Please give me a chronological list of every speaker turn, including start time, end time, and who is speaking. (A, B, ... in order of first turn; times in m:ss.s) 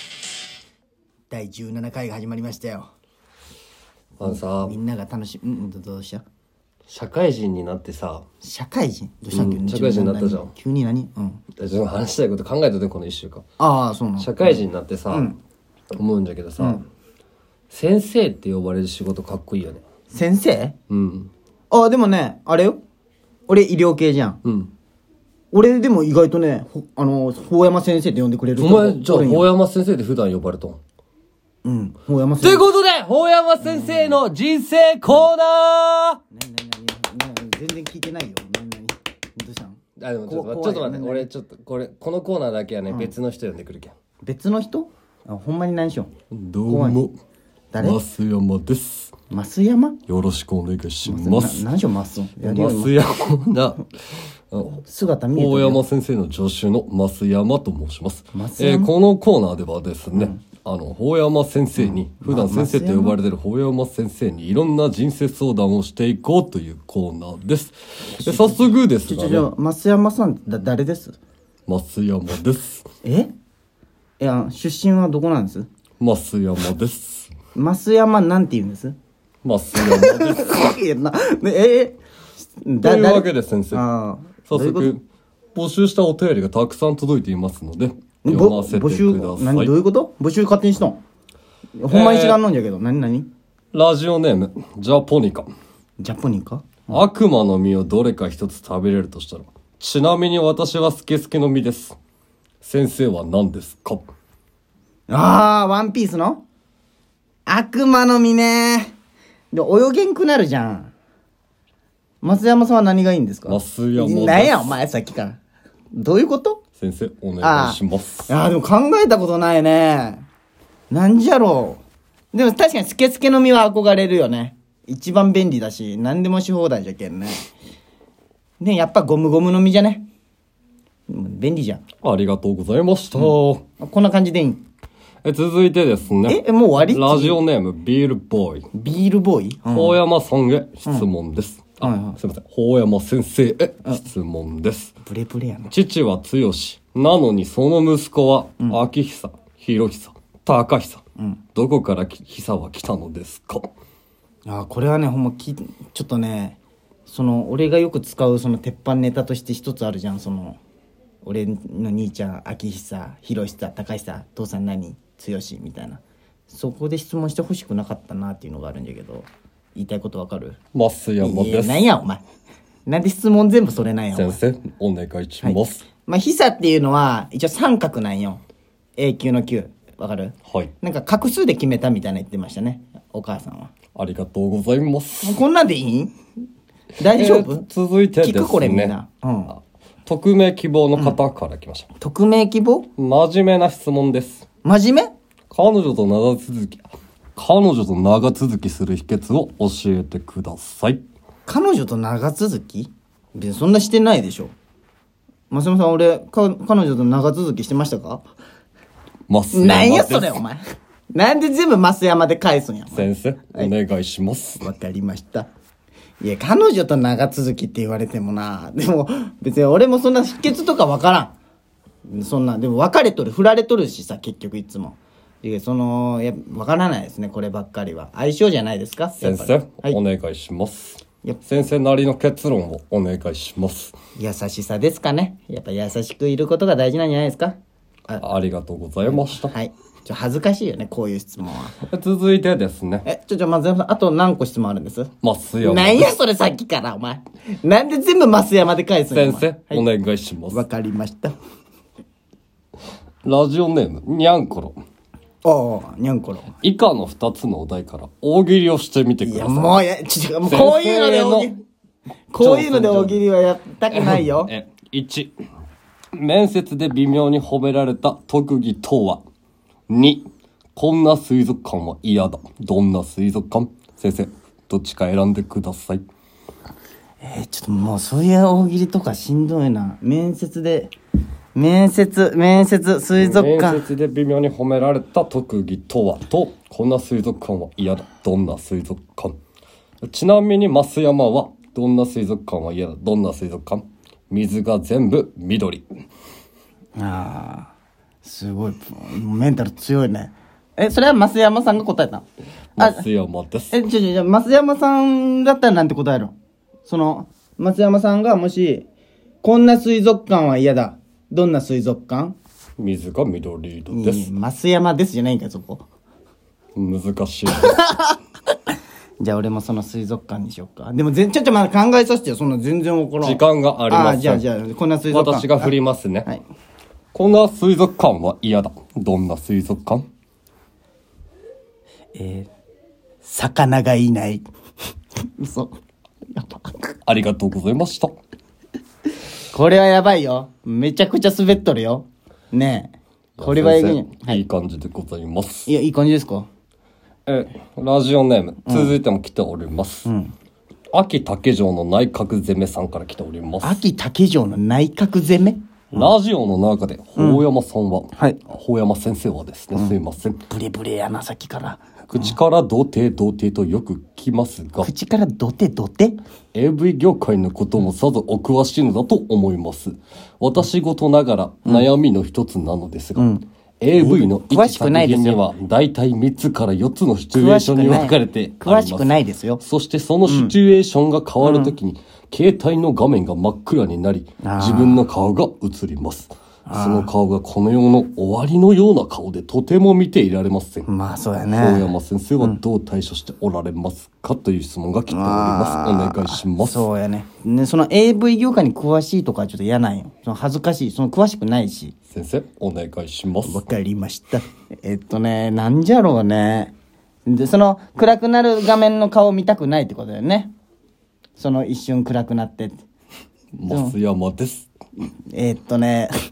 0:01.3-0:02.9 A
0:04.2-0:04.8 B
0:04.2-0:06.2 A
0:06.9-0:08.2 B
0:08.4-0:11.4 A
0:09.3-0:10.5 B
0:11.6-0:13.4 B
0:13.6-0:15.4 A
0:14.2-0:15.3 B
0:16.0-0:16.8 B
0:17.7-0:19.8 B
0:20.1-0:20.8 A
0:20.9-0:21.3 B
0:21.7-0:22.8 A
0:23.5-0:24.4 A
0:24.4-0:24.7 B
0:25.5-0:29.5 A
0:28.6-0:30.8 B
0:31.6-0:32.7 A
0:32.4-0:36.2 B
0:33.6-0:34.2 A
0:36.3-0:41.3 A
0:40.0-0:43.9 B
0:44.2-0:46.1 A
0:46.3-0:47.1 B
0:46.7-0:47.0 A
0:47.7-0:48.0 A
0:47.8-0:49.1 B
0:49.3-0:50.0 A
0:50.1-0:51.7 B
0:51.0-0:53.0 A
0:52.4-0:53.9 B
0:54.5-0:54.8 B
0:54.7-0:55.8 A
0:55.4-1:09.5 B
0:58.3-0:58.9 A
1:00.1-1:00.4 A
1:01.8-1:03.2 A
1:08.2-1:11.2 A
1:11.7-1:12.8 B
1:13.0-1:13.3 A
1:14.2-1:15.7 A
1:16.0-1:17.3 B
1:17.5-1:19.0 A
1:19.4-1:20.6 B
1:19.8-1:22.0 A
1:22.6-1:24.9 A
1:22.8-1:23.8 B
1:24.5-1:25.0 B
1:25.6-1:29.7 B
1:28.2-1:31.0 A
1:31.8-1:33.3 A
1:31.9-1:32.4 B
1:33.7-1:35.5 B
1:36.0-1:37.0 A
1:36.9-1:42.0 B
1:42.6-1:44.1 B
1:45.1-1:46.4 A
1:47.5-1:48.9 A
1:49.5-1:50.9 A
1:52.2-1:55.4 A
1:53.5-1:54.8 B
1:55.9-1:56.6 A
1:56.8-1:58.3 B
1:57.4-2:00.3 A
2:00.9-2:01.8 A
2:02.3-2:07.5 A
2:08.6-2:10.1 A
2:11.1-2:11.8 A
2:12.0-2:13.6 B
2:13.1-2:14.6 A
2:15.2-2:18.7 B
2:16.3-2:17.4 A
2:18.7-2:20.0 A
2:19.7-2:24.9 B
2:21.8-2:22.2 A
2:25.0-2:25.7 A
2:25.7-2:31.0 B
2:31.6-2:33.7 B
2:34.4-2:40.6 A
2:41.2-2:50.6 A
2:50.7-2:51.9 B
2:51.2-2:52.2 A
2:52.9-2:54.4 A
2:54.1-2:55.8 B
2:55.4-2:58.4 A
2:59.0-3:03.7 A
3:00.5-3:00.7 B
3:04.0-3:05.4 B
3:05.2-3:06.1 A
3:07.0-3:07.6 A
3:07.1-3:08.9 B
3:08.2-3:09.5 A
3:10.1-3:11.9 B
3:12.0-3:12.9 A
3:13.0-3:14.4 B
3:14.6-3:15.1 A
3:15.5-3:21.0 B
3:21.5-3:24.5 A
3:25.5-3:28.2 A
3:29.3-3:30.4 B
3:29.5-3:30.6 A
3:31.1-3:33.7 A
3:32.9-3:34.6 B
3:34.6-3:35.5 A
3:36.2-3:41.4 A
3:42.1-3:50.0 A
3:49.2-3:54.0 B
3:54.2-3:57.6 A
3:58.2-3:59.5 B
3:59.4-4:01.8 A
4:01.8-4:03.1 B
4:03.0-4:09.9 A
4:05.2-4:06.1 B
4:09.1-4:10.6 B
4:10.5-4:11.4 A
4:13.2-4:14.8 B
4:15.4-4:16.5 A
4:16.6-4:19.8 B
4:19.2-4:21.6 A
4:20.4-4:21.5 B
4:22.3-4:24.5 A
4:22.4-4:23.2 B
4:23.9-4:25.3 B
4:26.1-4:29.2 B
4:29.9-4:30.2 B
4:30.8-4:36.0 B
4:37.2-4:40.9 A
4:41.6-4:43.9 A
4:43.2-4:49.4 B
4:50.0-4:55.8 B
4:57.0-4:57.7 A
4:58.2-5:02.2 A
5:02.8-5:03.7 B
5:02.8-5:03.0 A
5:03.7-5:06.4 A
5:06.9-5:08.9 A
5:09.4-5:12.4 A
5:12.8-5:14.3 B
5:13.9-5:15.8 A
5:16.8-5:17.8 B
5:17.6-5:18.1 A
5:19.2-5:25.7 A
5:23.2-5:24.4 B
5:25.1-5:26.3 B
5:27.1-5:30.1 B
5:32.1-5:32.5 A
5:33.2-5:34.5 A
5:35.4-5:35.8 A
5:36.3-5:37.0 A
5:37.1-5:38.2 B
5:39.5-5:44.4 A
5:43.4-5:45.7 B
5:45.7-5:46.5 A
5:47.3-5:50.1 B
5:48.7-5:49.0 A
5:50.1-5:50.3 A
5:50.9-5:53.8 B
5:53.6-5:56.1 A
5:55.9-6:00.4 B
5:57.2-5:57.5 A
5:58.2-5:58.4 A
6:00.5-6:02.4 A
6:02.1-6:04.9 B
6:04.8-6:06.2 A
6:06.5-6:30.9 B
6:13.2-6:13.4 A
6:14.0-6:15.4 A
6:17.3-6:19.6 A
6:20.3-6:20.5 A
6:21.4-6:21.8 A
6:24.4-6:25.0 A
6:26.7-6:27.1 A
6:30.9-6:32.6 A
6:31.5-6:36.9 B
6:35.1-6:42.0 A
6:42.1-6:43.6 B
6:43.4-6:46.7 A
6:47.3-6:50.5 A
6:51.4-6:52.8 A
6:53.6-6:54.7 B
6:53.7-6:54.0 A
6:55.3-6:56.1 A